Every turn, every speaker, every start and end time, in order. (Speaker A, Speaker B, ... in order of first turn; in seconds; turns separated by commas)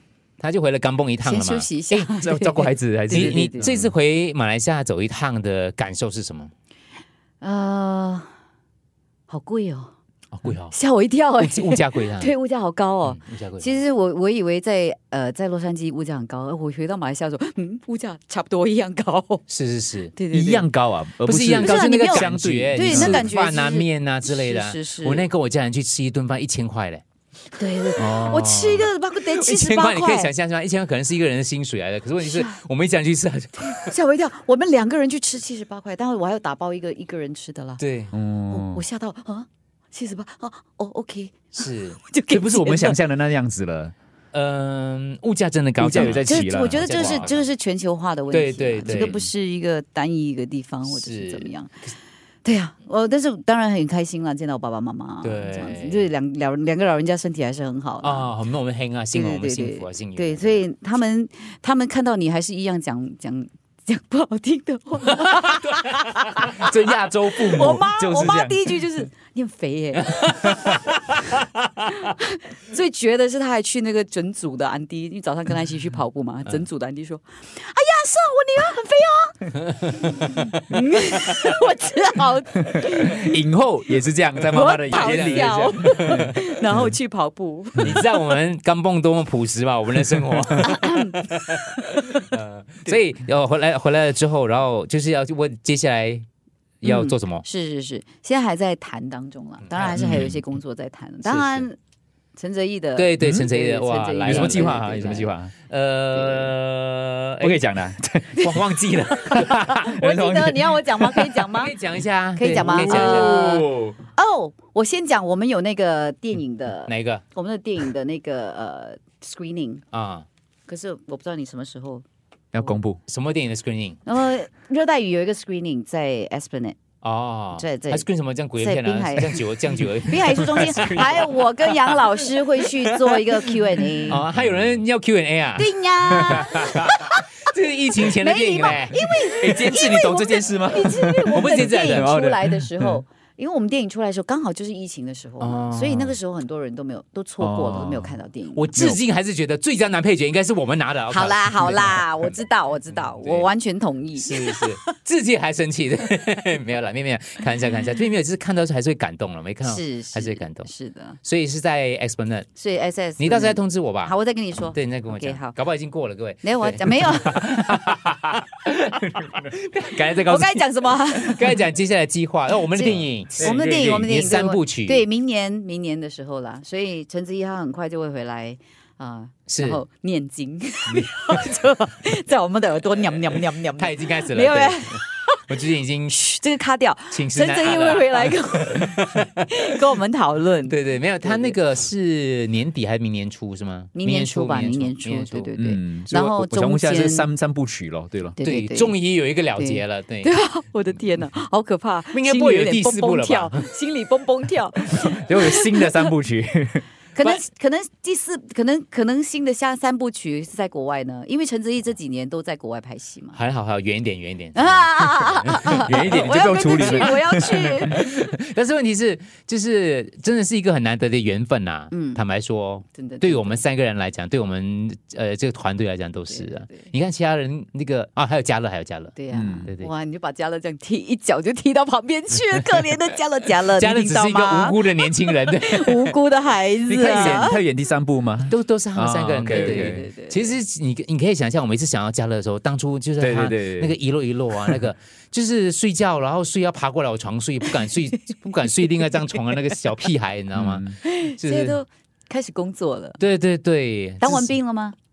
Speaker A: 0.4-1.7, Speaker B: 1.2-3.7, Speaker C: 1.9-3.9, Speaker A: 3.1-6.5, Speaker B: 7.4-8.3, Speaker B: 9.3-9.9, Speaker A: 10.3-10.7, Speaker B: 10.7-19.4, Speaker A: 11.4-12.3, Speaker A: 13.0-13.7, Speaker A: 19.5-20.1, Speaker B: 20.1-20.7, Speaker C: 20.3-23.3, Speaker A: 21.2-27.0, Speaker B: 21.6-25.3, Speaker B: 27.6-30.3, Speaker C: 27.9-28.9, Speaker A: 29.1-33.9, Speaker B: 32.2-32.6, Speaker B: 33.7-37.8, Speaker A: 37.8-38.1, Speaker C: 38.1-38.8, Speaker B: 38.5-43.0, Speaker A: 41.5-42.0, Speaker C: 42.3-43.9, Speaker A: 44.3-47.4, Speaker C: 45.8-47.3, Speaker B: 46.2-51.9, Speaker A: 48.3-49.2, Speaker C: 48.9-49.3, Speaker A: 50.9-51.5, Speaker B: 52.4-58.3, Speaker A: 55.2-56.0, Speaker A: 58.0-60.6, Speaker B: 59.1-66.7, Speaker A: 65.3-65.6, Speaker C: 66.5-68.6, Speaker B: 67.3-70.8, Speaker C: 70.4-70.7, Speaker B: 71.8-83.3, Speaker C: 82.7-86.9, Speaker B: 84.5-88.0, Speaker A: 84.9-86.3, Speaker A: 87.8-96.2, Speaker B: 90.6-91.2, Speaker A: 96.8-97.4, Speaker B: 96.8-101.8, Speaker A: 99.6-100.4, Speaker C: 99.9-100.4, Speaker A: 101.2-101.7, Speaker B: 102.3-105.3, Speaker A: 103.0-107.7, Speaker C: 103.2-103.5, Speaker C: 104.2-105.5, Speaker B: 106.1-106.5, Speaker C: 107.4-111.5, Speaker B: 108.3-108.7, Speaker B: 109.3-111.7, Speaker A: 111.5-113.5, Speaker B: 112.4-119.8, Speaker C: 112.4-114.0, Speaker A: 116.9-117.2, Speaker A: 119.9-120.2, Speaker B: 120.7-122.0, Speaker C: 122.5-123.0, Speaker A: 123.1-124.0, Speaker B: 124.0-126.8, Speaker A: 127.0-131.2, Speaker B: 127.5-128.0, Speaker B: 128.6-134.2, Speaker C: 130.4-131.3, Speaker A: 132.1-132.7, Speaker A: 134.1-139.5, Speaker B: 135.6-137.2, Speaker C: 136.2-136.7, Speaker B: 138.0-148.8, Speaker C: 139.4-143.0, Speaker A: 141.3-142.1, Speaker A: 145.4-146.2, Speaker C: 147.4-148.2, Speaker A: 148.5-152.4, Speaker B: 151.1-154.7, Speaker A: 153.1-153.5, Speaker A: 154.2-160.7, Speaker B: 159.6-161.2, Speaker A: 161.2-162.4, Speaker B: 162.6-165.6, Speaker A: 163.2-164.1, Speaker A: 164.7-175.0, Speaker B: 166.4-167.5, Speaker B: 170.2-171.5, Speaker B: 172.6-185.4, Speaker C: 173.4-174.1, Speaker A: 179.5-179.8, Speaker A: 183.8-186.2, Speaker B: 186.1-191.6, Speaker A: 187.1-189.4, Speaker A: 190.7-195.5, Speaker B: 193.9-197.3, Speaker C: 195.6-198.4, Speaker B: 198.4-199.0, Speaker A: 198.4-200.3, Speaker B: 199.5-206.1, Speaker A: 202.1-203.7, Speaker C: 205.0-206.9, Speaker B: 207.1-213.4, Speaker A: 213.3-229.9, Speaker B: 214.5-218.1, Speaker C: 215.7-217.7, Speaker B: 221.9-222.2, Speaker B: 222.9-223.6, Speaker B: 226.3-226.9, Speaker B: 229.2-237.6, Speaker C: 229.3-229.7, Speaker A: 233.7-236.2, Speaker C: 236.9-240.1, Speaker A: 237.1-237.4, Speaker A: 238.5-251.8, Speaker B: 239.5-240.6, Speaker C: 243.2-243.9, Speaker B: 248.8-249.7, Speaker C: 250.5-250.9, Speaker B: 251.0-253.2, Speaker A: 253.2-254.5, Speaker B: 254.2-254.9